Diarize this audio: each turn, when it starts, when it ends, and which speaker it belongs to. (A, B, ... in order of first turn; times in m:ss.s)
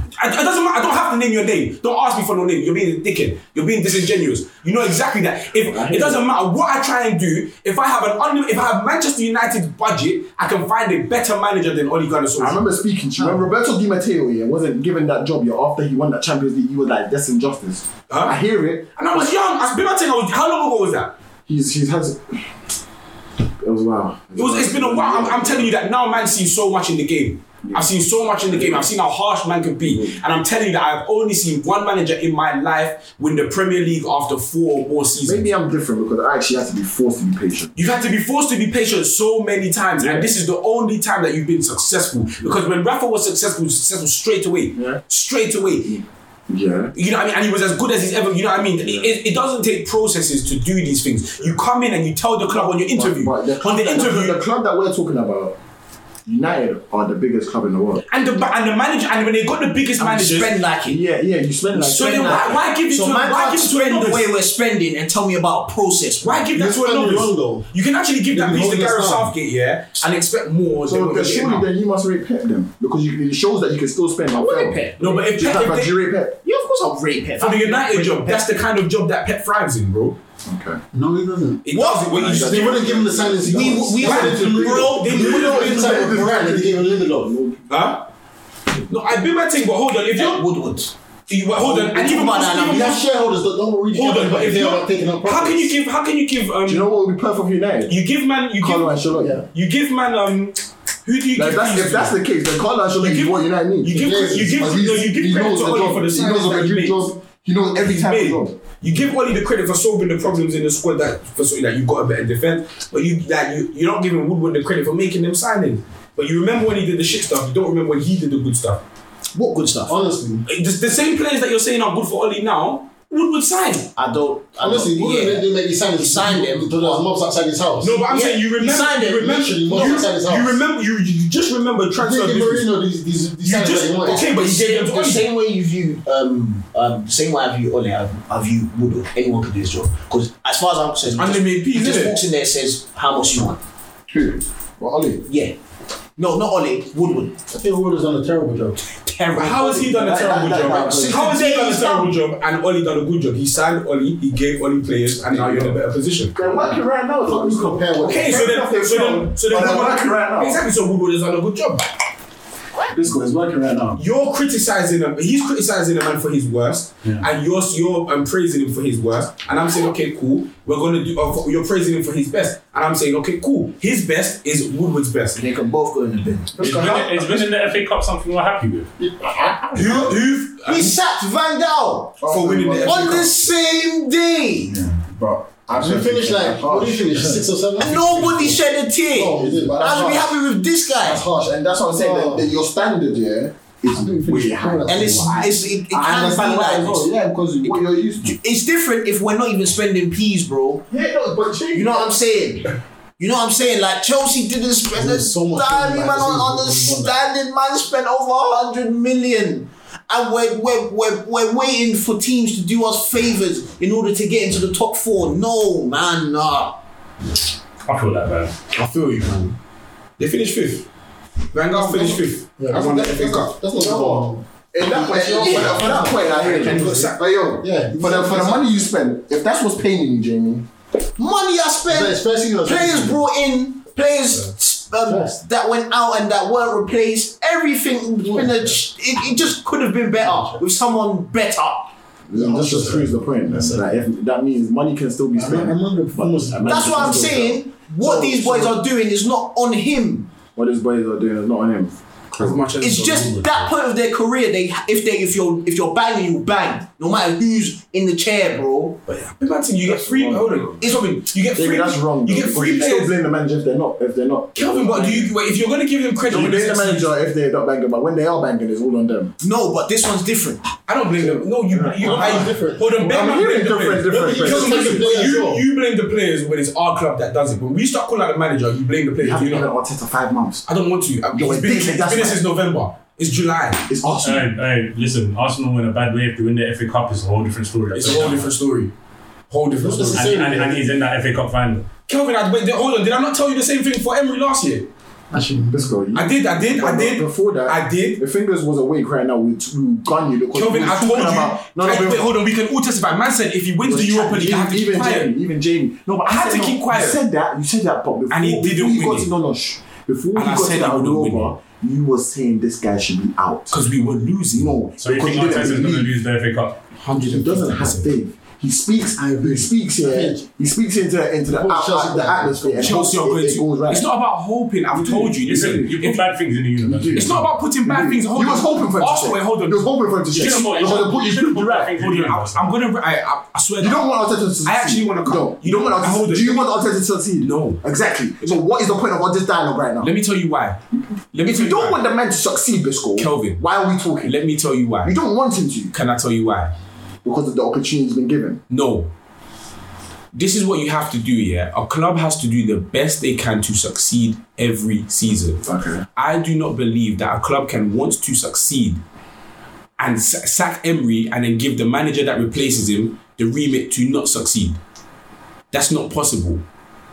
0:00.2-0:12.6 A
0:05.6-0:06.2 B
0:12.4-0:19.3 B
0:18.1-0:18.4 A
0:19.0-0:21.1 A
0:21.5-0:22.5 B
0:23.6-0:25.7 B
0:24.4-0:35.5 A
0:27.6-0:28.9 B
0:29.8-0:30.2 B
0:35.2-0:37.8 B
0:37.8-0:46.0 A
0:40.0-0:40.3 B
0:44.8-0:45.0 B
0:45.8-0:46.9 B
0:47.0-0:54.4 A
0:48.8-0:49.1 B
0:52.5-0:55.6 B
0:56.3-0:58.0 B
0:58.1-1:00.6 A
1:00.0-1:01.0 C
1:00.8-1:02.4 B
1:01.7-1:06.5 C
1:01.9-1:04.3 A
1:06.2-1:11.7 A
1:06.5-1:07.7 D
1:08.3-1:09.3 D
1:10.8-1:14.8 B
1:14.3-1:15.3 C
1:15.0-1:16.0 A
1:15.3-1:16.4 B
1:16.4-1:18.5 C
1:17.4-1:20.2 A
1:20.5-1:20.8 B
1:20.9-1:21.7 D
1:21.6-1:23.0 A
1:21.7-1:22.2 C
1:22.1-1:27.7 B
1:22.2-1:27.3 D
1:23.4-1:26.0 C
1:24.0-1:26.0 A
1:27.7-1:28.1 A
1:28.9-1:30.4 A
1:30.1-1:30.9 C
1:31.3-1:33.0 A
1:31.6-1:33.0 C
1:32.7-1:35.7 D
1:33.9-1:36.9 A
1:36.7-1:37.9 B
1:37.9-1:42.2 A
1:38.6-1:39.4 B
1:39.1-1:39.5 D
1:41.4-1:48.6 B
1:43.0-1:47.1 A
1:43.9-1:44.8 D
1:47.8-1:58.8 A
1:59.4-2:00.0 C
1:59.9-2:00.4 D
2:00.5-2:03.9 A
2:04.0-2:07.0 C
2:04.6-2:08.0 D
2:07.8-2:12.7 A
2:08.1-2:10.0 C
2:09.2-2:10.6 D
2:11.9-2:14.2 D
2:13.4-2:15.3 A
2:14.0-2:23.6 C
2:21.1-2:22.2 A
2:24.1-2:25.2 B
2:25.2-2:25.6 C
2:26.2-2:27.4 C
2:27.4-2:28.8 D
2:29.2-2:36.7 A
2:29.2-2:30.0 C
2:29.4-2:31.2 B
2:30.6-2:32.2 C
2:35.4-2:35.7 B
2:36.4-2:40.6 B
2:37.2-2:38.5 D
2:38.0-2:41.9 A
2:42.9-2:44.0 B
2:44.0-2:55.4 A
2:55.4-2:56.6 C
2:56.6-2:57.4 B
2:56.6-2:58.9 E
2:59.0-3:00.1 B
2:59.7-3:01.0 A
3:00.6-3:02.2 C
3:02.2-3:03.3 B
3:02.3-3:03.3 A
3:02.8-3:04.8 C
3:04.7-3:07.4 B
3:05.7-3:10.3 D
3:07.8-3:11.2 C
3:09.4-3:10.2 B
3:11.0-3:18.3 B
3:11.9-3:12.5 D
3:14.0-3:15.5 D
3:14.9-3:17.1 C
3:17.6-3:20.9 C
3:20.9-3:22.1 B
3:21.7-3:36.8 C
3:24.9-3:27.1 D
3:37.8-3:38.5 E
3:38.7-3:39.6 A
3:40.2-3:40.9 A
3:41.5-3:43.6 A
3:41.8-3:48.7 D
3:43.8-3:50.7 B
3:45.7-3:47.2 A
3:51.2-4:01.9 C
3:51.9-3:53.2 D
3:55.1-3:55.4 D
3:58.3-3:58.8 D
4:00.2-4:00.6 D
4:02.3-4:08.8 B
4:02.3-4:03.8 D
4:05.4-4:07.4 D
4:06.6-4:10.3 C
4:10.6-4:12.6 B
4:12.3-4:13.7 A
4:12.8-4:19.0 C
4:19.1-4:23.2 A
4:19.8-4:20.9 B
4:21.5-4:25.3 B
4:24.6-4:27.1 A
4:26.3-4:29.3 B
4:29.4-4:30.6 C
4:30.8-4:39.7 A
4:31.2-4:35.1 B
4:32.0-4:32.9 D
4:34.1-4:35.6 D
4:39.2-4:40.7 B
4:40.7-4:43.9 A
4:41.3-4:42.4 B
4:43.9-4:44.5 B
4:44.2-4:48.5 E
4:47.9-4:48.9 A
4:49.5-4:50.6 A
4:49.8-4:50.9 D
4:50.1-4:51.9 E
4:52.1-4:54.9 A
4:55.3-4:56.0 D
4:55.7-5:02.2 B
4:56.2-4:58.2 A
5:00.5-5:05.3 A
5:03.8-5:13.8 B
5:06.3-5:07.2 A
5:08.3-5:09.3 A
5:10.4-5:11.6 A
5:13.7-5:14.8 A
5:14.5-5:16.1 B
5:15.0-5:16.8 E
5:17.0-5:18.2 A
5:17.2-5:24.1 B
5:19.1-5:20.4 D
5:21.5-5:23.0 D
5:22.8-5:26.3 A
5:25.0-5:27.5 E
5:25.6-5:25.9 B
5:26.8-5:32.0 B
5:27.1-5:31.1 A
5:30.3-5:32.7 E
5:32.0-5:34.0 A
5:33.8-5:40.1 B
5:34.6-5:36.8 A
5:37.4-5:37.8 A
5:40.0-5:40.8 A
5:40.9-5:44.4 B
5:41.3-5:42.0 A
5:43.2-5:43.6 A
5:44.2-5:45.2 A
5:45.0-5:45.9 B
5:45.9-5:46.7 A
5:47.2-5:48.6 B
5:48.7-5:49.1 A
5:50.3-5:55.6 A
5:55.6-5:56.0 B
5:56.2-5:59.0 A
6:00.0-6:04.8 A
6:05.7-6:06.6 A